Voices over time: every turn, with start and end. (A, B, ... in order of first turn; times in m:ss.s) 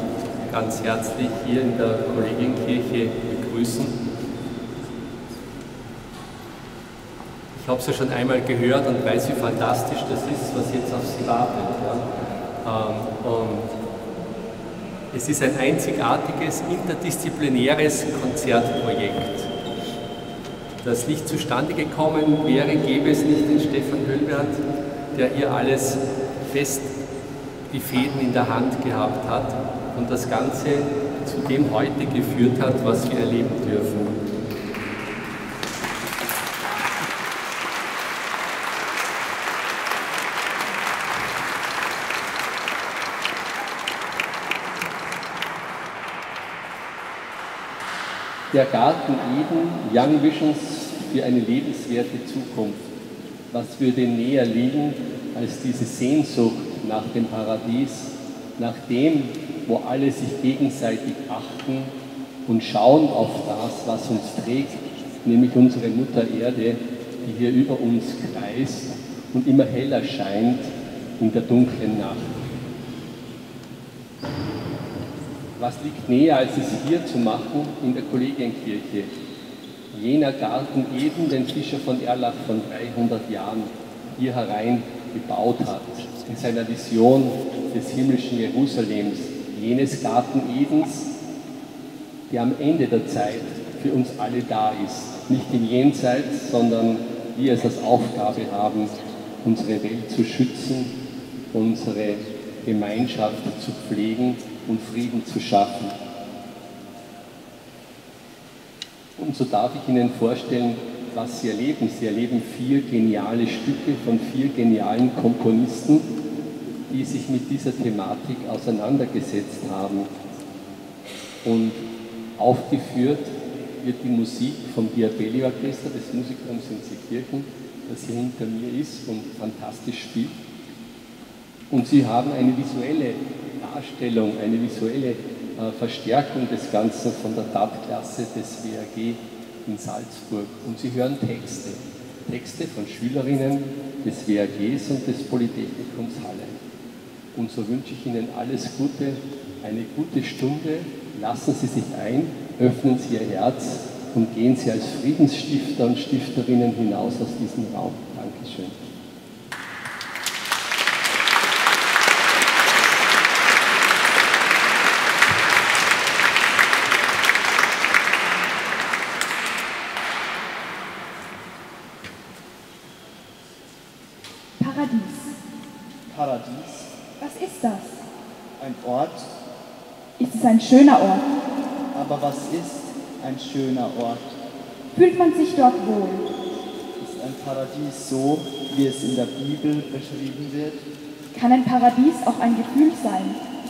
0:00.5-0:04.0 A
0:07.6-0:12.1 A
0:12.6-0:13.7 A
0:15.1-0:19.5 A
0:20.8-0:24.6 A
0:25.1-0:26.9 A
0:27.7-0:34.2 A
0:48.5-0:52.9 A
0:53.5-1:02.0 A
1:02.5-1:12.4 A
1:15.6-1:19.1 A
1:19.9-1:31.1 A
1:32.3-1:40.9 A
1:41.5-1:46.0 A
1:49.2-1:56.1 A
1:56.9-2:00.1 A
2:01.4-2:01.8 A
2:02.4-2:10.4 A
2:11.7-2:26.6 A
2:27.3-2:38.8 A
2:54.6-2:55.4 B
2:56.1-2:56.9 C
2:57.2-2:58.1 B
2:58.6-2:59.3 C
3:00.2-3:01.3 B
3:01.9-3:04.4 C
3:04.9-3:06.3 B
3:07.0-3:10.9 C
3:11.3-3:13.4 B